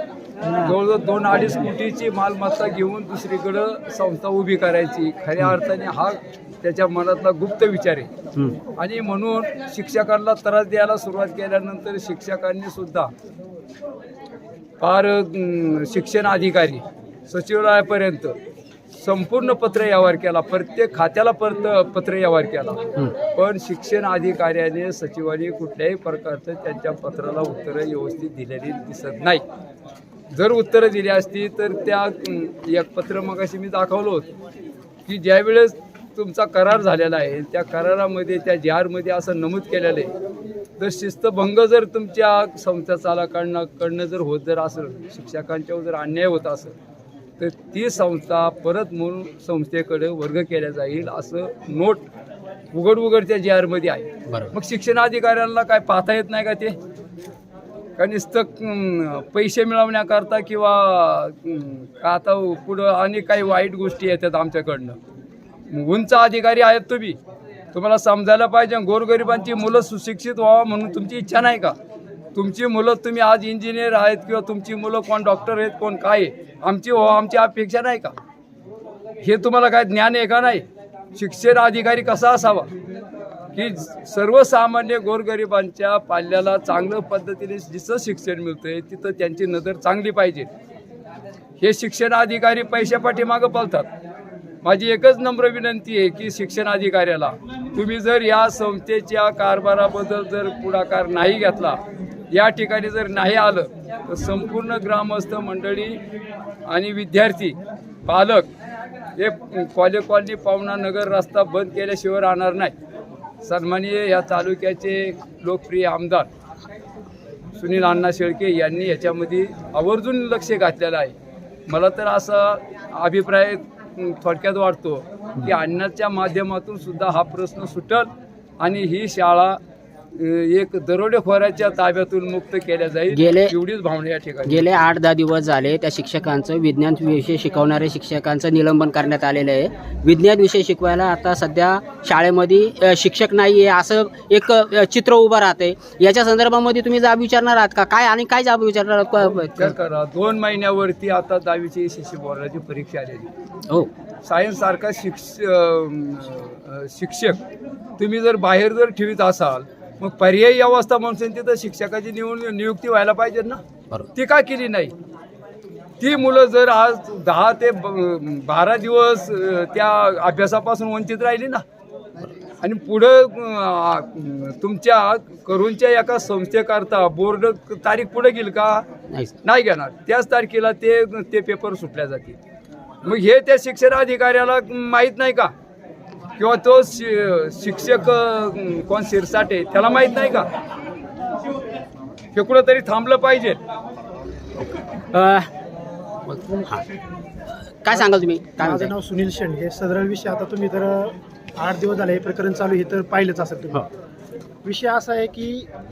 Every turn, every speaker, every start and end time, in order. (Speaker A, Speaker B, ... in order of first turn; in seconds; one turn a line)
Speaker A: 0.6-8.1
Speaker A: 8.8-13.1
Speaker A: 14.8-18.4
Speaker A: 18.9-29.4
Speaker A: 30.3-34.3
Speaker A: 35.0-40.1
Speaker A: 40.8-46.7
Speaker A: 47.4-52.0
Speaker A: 52.7-56.8
Speaker B: 54.3-54.5
Speaker A: 58.0-65.0
Speaker A: 65.7-67.2
Speaker A: 67.7-71.8
Speaker A: 72.3-78.2
Speaker A: 79.2-82.7
Speaker A: 83.5-90.5
Speaker A: 91.6-93.9
Speaker A: 94.6-106.0
Speaker A: 106.7-108.5
Speaker A: 109.2-112.7
Speaker A: 113.4-116.3
Speaker A: 117.5-121.2
Speaker A: 121.7-129.6
Speaker A: 130.1-134.8
Speaker B: 133.1-133.5
Speaker B: 134.4-149.7
Speaker A: 149.6-153.3
Speaker A: 154.2-157.4
Speaker A: 158.0-163.6
Speaker A: 164.1-164.9
Speaker A: 166.0-171.6
Speaker A: 172.6-178.9
Speaker B: 179.1-179.3
Speaker A: 179.4-182.4
Speaker A: 183.0-185.5
Speaker A: 186.4-190.5
Speaker A: 192.3-193.6
Speaker B: 195.1-195.5
Speaker B: 196.3-196.8
Speaker B: 197.8-198.9
Speaker C: 197.9-203.8
Speaker C: 204.6-205.7